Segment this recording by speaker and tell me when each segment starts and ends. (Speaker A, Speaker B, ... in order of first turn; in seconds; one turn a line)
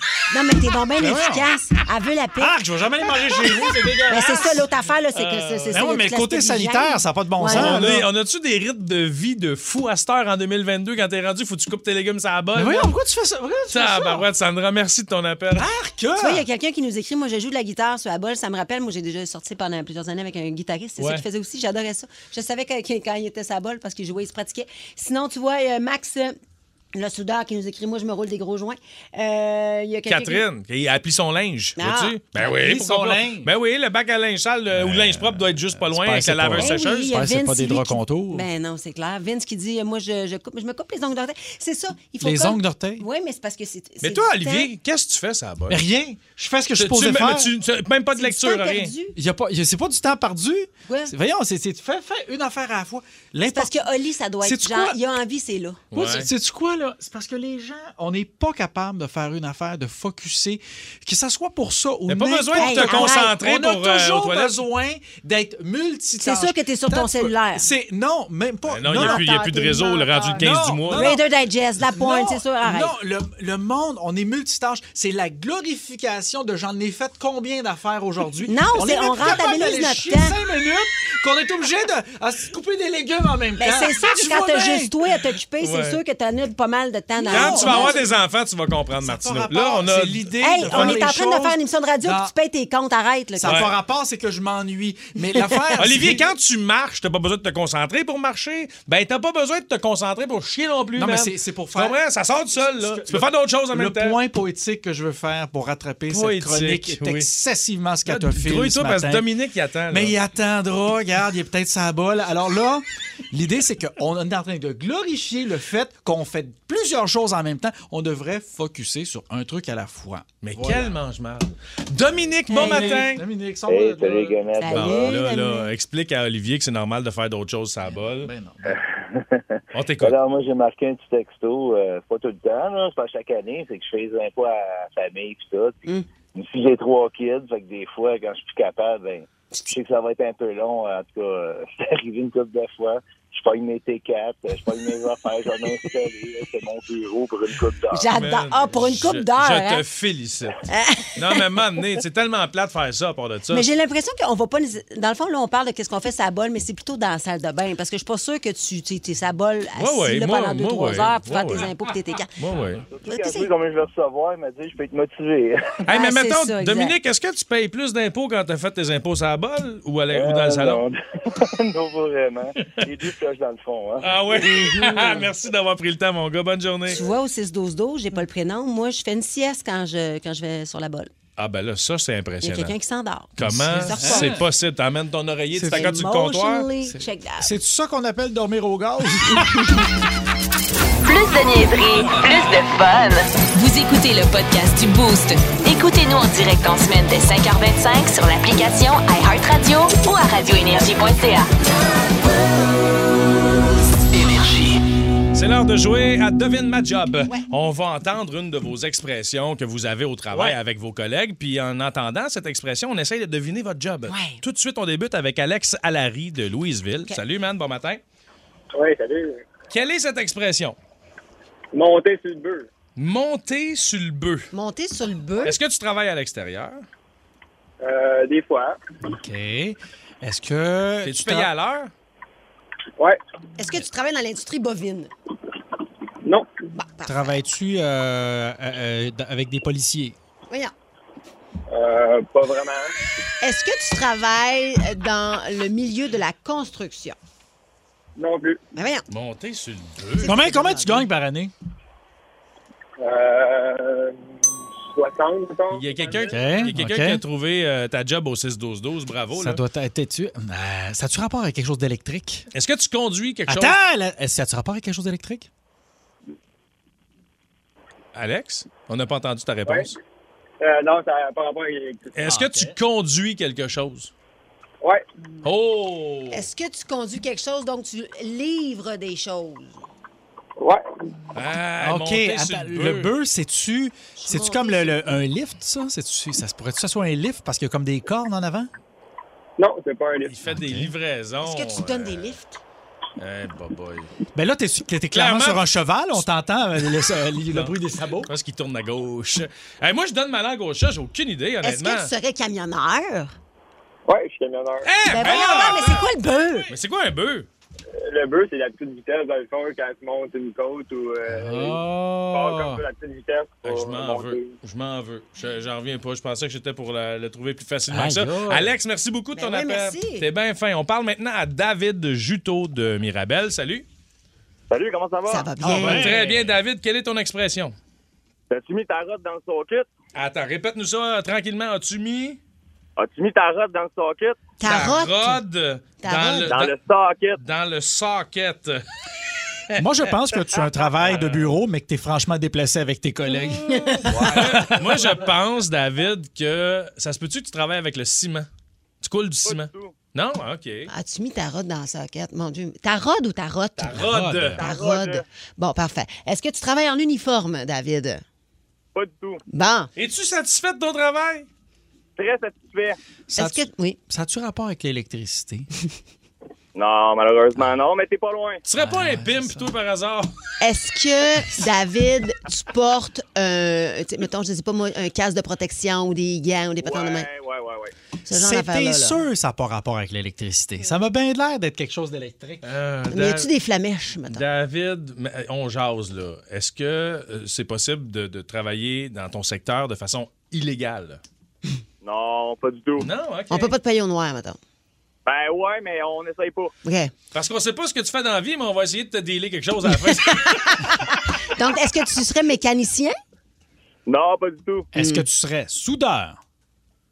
Speaker A: 0.3-2.5
Speaker B: 1.0-1.5
Speaker B: 2.4-4.7
Speaker A: 4.1-8.0
Speaker C: 5.1-5.8
Speaker B: 5.7-8.1
Speaker C: 7.5-12.9
Speaker B: 12.5-14.2
Speaker C: 13.7-15.7
Speaker B: 15.5-16.4
Speaker A: 16.2-26.4
Speaker C: 21.0-21.2
Speaker A: 26.9-30.4
Speaker C: 30.1-37.1
Speaker A: 31.8-32.4
Speaker B: 32.4-33.5
Speaker B: 34.7-38.5
Speaker A: 36.5-44.7
Speaker B: 42.2-43.0
Speaker C: 44.0-45.8
Speaker B: 45.7-47.5
Speaker C: 46.8-48.9
Speaker A: 48.1-49.1
Speaker B: 49.1-53.8
Speaker A: 53.5-55.8
Speaker B: 54.4-55.0
Speaker C: 55.9-56.3
Speaker B: 55.9-69.3
Speaker C: 62.1-64.6
Speaker A: 62.5-63.3
Speaker A: 66.2-67.7
Speaker C: 68.7-71.2
Speaker A: 68.9-72.9
Speaker B: 70.4-71.2
Speaker B: 71.8-84.9
Speaker A: 78.5-80.3
Speaker A: 83.6-88.0
Speaker C: 85.6-86.0
Speaker B: 87.2-88.0
Speaker C: 87.3-91.0
Speaker B: 89.0-92.3
Speaker A: 90.4-93.6
Speaker B: 93.4-96.3
Speaker C: 93.4-93.7
Speaker C: 95.8-104.2
Speaker B: 101.0-102.0
Speaker B: 102.5-109.2
Speaker C: 106.1-107.3
Speaker C: 108.0-110.1
Speaker B: 109.9-120.9
Speaker C: 120.4-123.2
Speaker A: 122.5-123.0
Speaker B: 122.5-124.8
Speaker D: 123.7-125.1
Speaker A: 124.6-125.7
Speaker C: 124.7-128.3
Speaker B: 127.8-128.8
Speaker D: 128.6-148.1
Speaker C: 129.7-130.2
Speaker A: 147.9-149.8
Speaker C: 148.1-150.6
Speaker A: 150.7-151.4
Speaker C: 151.2-153.7
Speaker A: 153.5-162.3
Speaker C: 159.8-161.7
Speaker C: 162.4-162.8
Speaker D: 162.9-165.8
Speaker A: 163.1-163.5
Speaker C: 165.9-170.8
Speaker A: 165.9-166.9
Speaker D: 170.1-174.1
Speaker C: 174.0-177.0
Speaker A: 174.3-175.3
Speaker A: 176.9-181.1
Speaker C: 181.4-182.7
Speaker A: 182.4-184.4
Speaker C: 183.3-186.7
Speaker B: 183.4-184.4
Speaker B: 185.5-185.9
Speaker A: 185.7-187.5
Speaker B: 186.8-189.5
Speaker E: 191.0-201.5
Speaker C: 205.3-218.0
Speaker A: 214.1-214.4
Speaker F: 218.7-219.4
Speaker C: 219.7-220.8
Speaker F: 221.7-222.7
Speaker C: 222.9-224.5
Speaker A: 224.5-225.6
Speaker C: 225.4-226.8
Speaker F: 227.8-228.8
Speaker B: 229.0-231.5
Speaker C: 231.0-231.9
Speaker A: 233.6-235.1
Speaker A: 236.7-237.3
Speaker B: 237.1-240.2
Speaker F: 241.7-242.9
Speaker A: 243.4-247.2
Speaker F: 248.2-248.6
Speaker A: 248.7-249.0
Speaker C: 249.1-250.3
Speaker A: 250.2-251.1
Speaker B: 250.2-251.5
Speaker F: 253.0-254.2
Speaker F: 254.8-256.4
Speaker C: 255.7-259.6
Speaker B: 256.3-257.2
Speaker B: 259.3-262.4
Speaker C: 262.5-263.8
Speaker B: 263.5-265.5
Speaker C: 268.1-269.9
Speaker F: 270.6-272.1
Speaker C: 272.1-274.1
Speaker B: 272.2-272.7
Speaker C: 275.4-276.5
Speaker A: 276.3-279.9
Speaker C: 281.3-283.1
Speaker B: 281.8-288.7
Speaker A: 284.2-285.2
Speaker F: 289.6-290.3
Speaker C: 290.3-292.4
Speaker B: 290.4-290.9
Speaker A: 291.4-292.6
Speaker C: 293.2-294.1
Speaker B: 294.3-298.3
Speaker C: 295.1-296.2
Speaker C: 298.3-302.1
Speaker A: 301.6-303.3
Speaker F: 304.1-304.9
Speaker C: 304.8-306.0
Speaker A: 305.1-306.7
Speaker C: 306.7-307.5
Speaker F: 308.0-311.8
Speaker B: 311.3-312.8
Speaker F: 312.3-314.5
Speaker C: 313.6-323.8
Speaker B: 317.9-318.7
Speaker A: 319.3-320.2
Speaker F: 324.7-325.4
Speaker A: 325.3-326.1
Speaker B: 325.6-326.5
Speaker C: 325.7-327.7
Speaker F: 328.5-329.8
Speaker C: 330.1-332.4
Speaker A: 334.6-335.4
Speaker C: 334.6-336.7
Speaker A: 336.0-336.5
Speaker F: 336.5-337.3
Speaker C: 337.4-338.8
Speaker B: 339.8-344.9
Speaker C: 341.0-341.5
Speaker A: 343.9-344.2
Speaker C: 344.3-348.5
Speaker C: 349.0-350.9
Speaker F: 349.4-349.9
Speaker A: 350.9-358.2
Speaker C: 353.8-354.8
Speaker B: 353.9-354.6
Speaker F: 354.6-355.2
Speaker F: 358.9-359.4
Speaker A: 359.5-359.9
Speaker C: 359.9-361.5
Speaker F: 362.2-362.9
Speaker B: 363.3-365.7
Speaker A: 363.3-364.0
Speaker F: 366.8-368.6
Speaker C: 368.6-370.3
Speaker B: 368.7-369.7
Speaker A: 370.6-377.3
Speaker F: 376.8-377.9
Speaker A: 378.3-379.2
Speaker B: 378.3-382.6
Speaker C: 382.6-383.5
Speaker A: 383.1-384.4
Speaker C: 384.3-391.2
Speaker F: 392.1-393.0
Speaker C: 393.0-393.7
Speaker A: 393.5-394.6
Speaker F: 395.3-396.6
Speaker A: 396.8-397.1
Speaker C: 397.3-400.8
Speaker A: 401.6-403.1
Speaker F: 404.1-404.8
Speaker B: 404.9-406.4
Speaker A: 404.9-405.2